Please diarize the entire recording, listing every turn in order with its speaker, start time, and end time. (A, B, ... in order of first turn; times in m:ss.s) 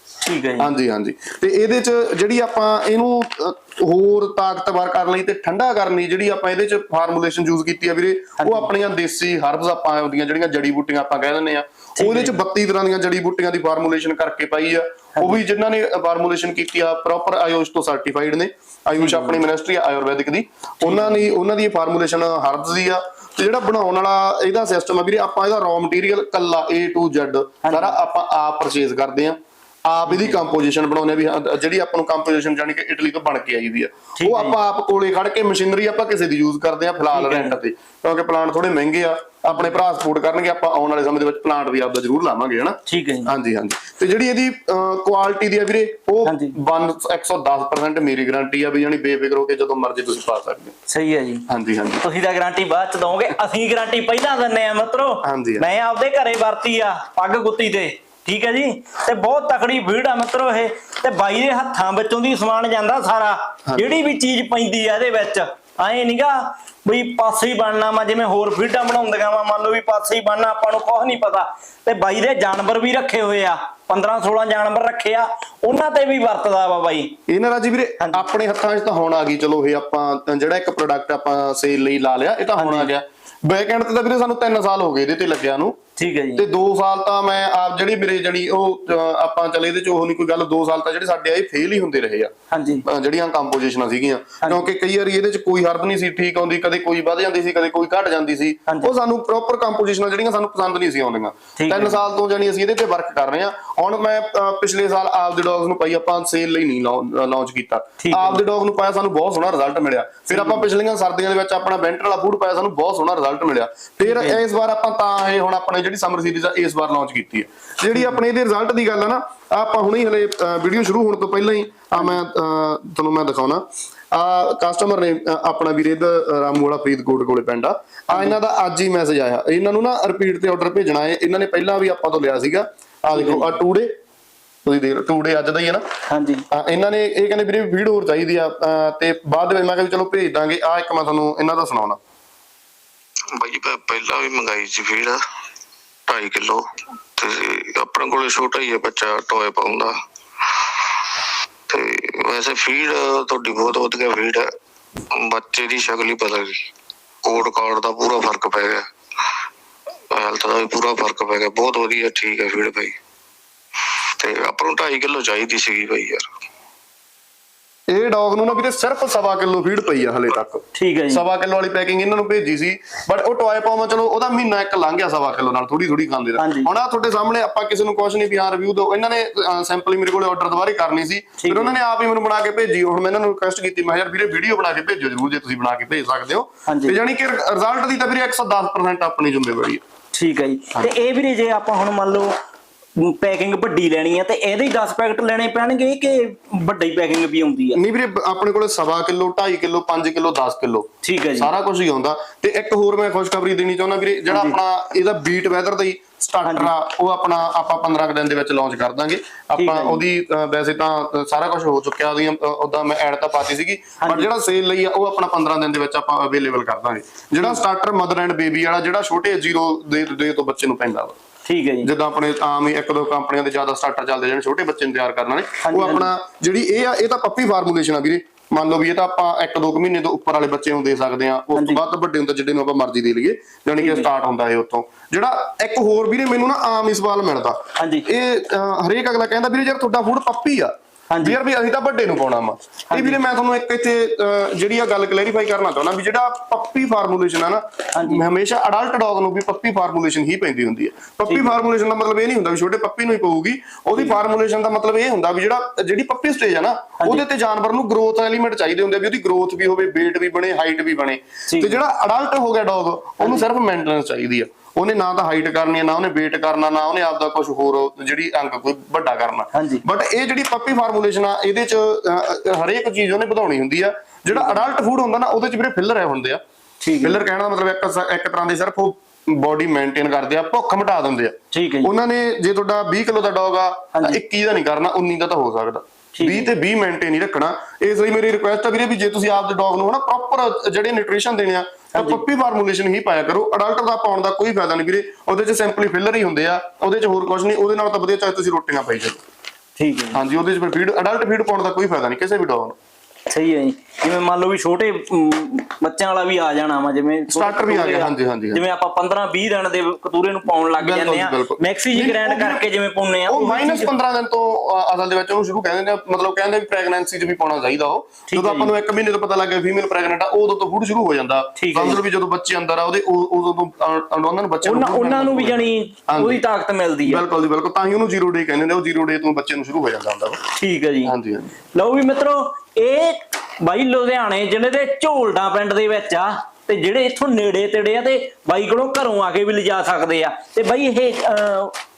0:00.2-0:00.7 A
0:00.6-0:50.7 B
0:08.4-0:08.7 A
0:12.0-0:12.4 A
0:19.0-0:19.4 A
0:20.8-0:21.3 A
0:27.6-0:27.9 A
0:30.1-0:30.4 A
0:34.2-0:34.6 A
0:37.1-0:37.6 A
0:42.9-0:43.3 A
0:46.2-0:46.5 A
0:50.9-0:51.4 A
0:51.5-0:52.0 B
0:52.0-1:17.1 A
0:55.2-0:55.6 B
1:03.7-1:04.0 B
1:17.3-1:25.8 B
1:22.6-1:22.9 A
1:26.0-1:26.4 A
1:26.4-1:32.3 B
1:32.5-1:32.8 A
1:32.8-2:13.9 B
1:41.6-1:42.0 A
1:48.0-1:48.4 A
1:50.3-1:50.6 A
1:54.0-1:54.4 A
2:13.1-2:13.5 A
2:14.6-2:15.8 B
2:16.1-2:16.4 A
2:16.5-2:22.0 B
2:23.3-2:25.2 C
2:26.1-2:26.6 C
2:27.2-2:29.9 C
2:31.7-2:34.5 C
2:35.1-2:36.6 C
2:37.2-2:38.8 C
2:40.1-2:42.9 C
2:44.2-2:46.2 C
2:47.9-3:09.8 B
2:50.7-2:51.2 A
2:56.4-2:56.7 A
3:01.4-3:01.8 A
3:06.6-3:07.0 A
3:10.1-3:12.3 A
3:13.0-3:17.8 A
3:17.7-3:41.2 B
3:21.0-3:21.5 A
3:24.3-3:24.6 A
3:26.4-3:26.7 A
3:29.6-3:30.0 A
3:34.0-3:34.3 A
3:41.4-3:41.9 A
3:41.8-4:36.4 B
3:45.6-3:46.1 A
3:51.5-3:51.8 A
3:53.8-3:54.1 A
3:57.8-3:58.1 A
4:01.1-4:01.4 A
4:02.9-4:03.2 A
4:07.9-4:08.2 A
4:11.3-4:11.6 A
4:21.5-4:21.8 A
4:29.5-4:29.8 A
4:34.3-4:34.6 A
4:36.8-4:37.2 A
4:37.0-4:59.2 B
4:41.5-4:41.9 A
4:46.1-4:46.5 A
4:52.0-4:52.2 A
4:59.8-5:00.2 A
5:00.1-5:02.8 B
5:03.3-5:13.9 A
5:07.3-5:08.6 B
5:10.8-5:12.7 B
5:13.3-5:26.4 B
5:18.3-5:18.7 A
5:21.6-5:22.0 A
5:24.6-5:27.2 A
5:27.0-5:30.4 B
5:30.5-5:31.1 A
5:31.0-5:31.5 B
5:31.7-5:41.7 A